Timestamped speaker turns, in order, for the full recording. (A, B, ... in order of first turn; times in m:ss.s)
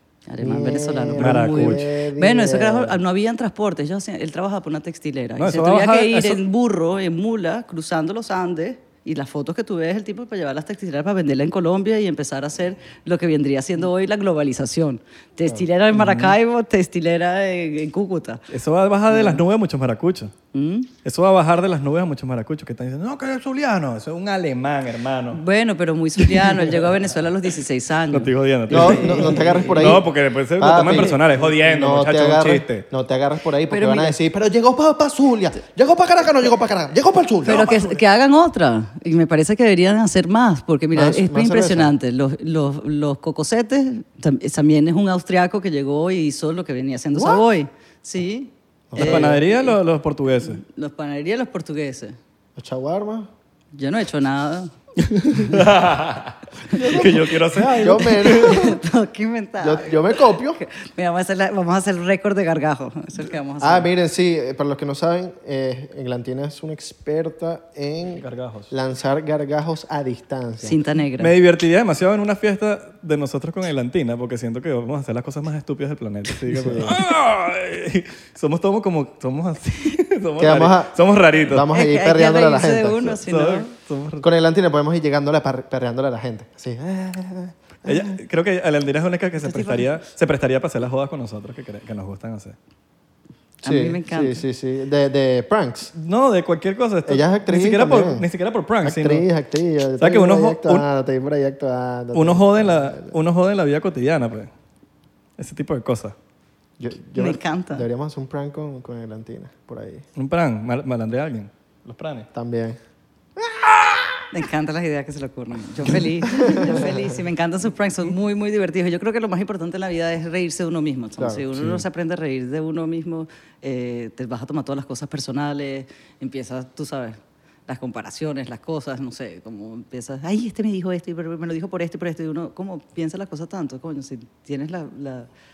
0:00.3-0:18.4 A
0:00.4-0:03.0 B
0:01.2-0:01.9 C
0:05.4-0:06.4 C
0:15.9-0:16.4 C
0:18.5-0:20.3 C
0:19.1-0:19.4 A
0:20.5-0:20.9 A
0:21.0-0:25.4 C
0:25.3-0:29.9 A
0:26.2-0:27.0 C
0:28.1-0:32.8 C
0:28.7-0:37.6 B
0:33.7-0:34.2 A
0:37.4-0:38.0 C
0:37.4-0:49.8 A
0:40.9-0:41.9 B
0:47.1-0:47.4 B
0:48.9-0:49.4 B
0:49.0-0:50.6 C
0:50.4-0:52.2 A
0:52.6-0:53.3 B
0:53.7-0:54.7 A
0:55.0-0:58.7 C
0:56.7-0:58.8 B
0:58.2-1:03.9 A
0:59.6-1:00.6 B
1:03.6-1:10.8 B
1:08.1-1:08.7 C
1:10.6-1:11.3 A
1:11.2-1:21.7 C
1:16.5-1:17.0 B
1:20.4-1:23.2 B
1:21.6-1:23.7 A
1:23.2-1:24.3 C
1:24.2-1:28.2 B
1:27.8-1:32.6 C
1:29.4-1:30.0 A
1:33.6-1:34.4 A
1:33.6-1:35.9 B
1:35.9-1:39.2 C
1:37.0-1:38.2 B
1:38.8-1:43.1 B
1:40.0-1:40.9 C
1:42.1-1:44.5 C
1:45.4-1:46.2 C
1:46.8-1:50.0 B
1:47.2-1:47.9 A
1:50.2-1:52.3 C
1:52.3-1:52.8 B
1:54.3-2:15.3 A
1:56.3-1:57.0 B
2:01.2-2:01.8 B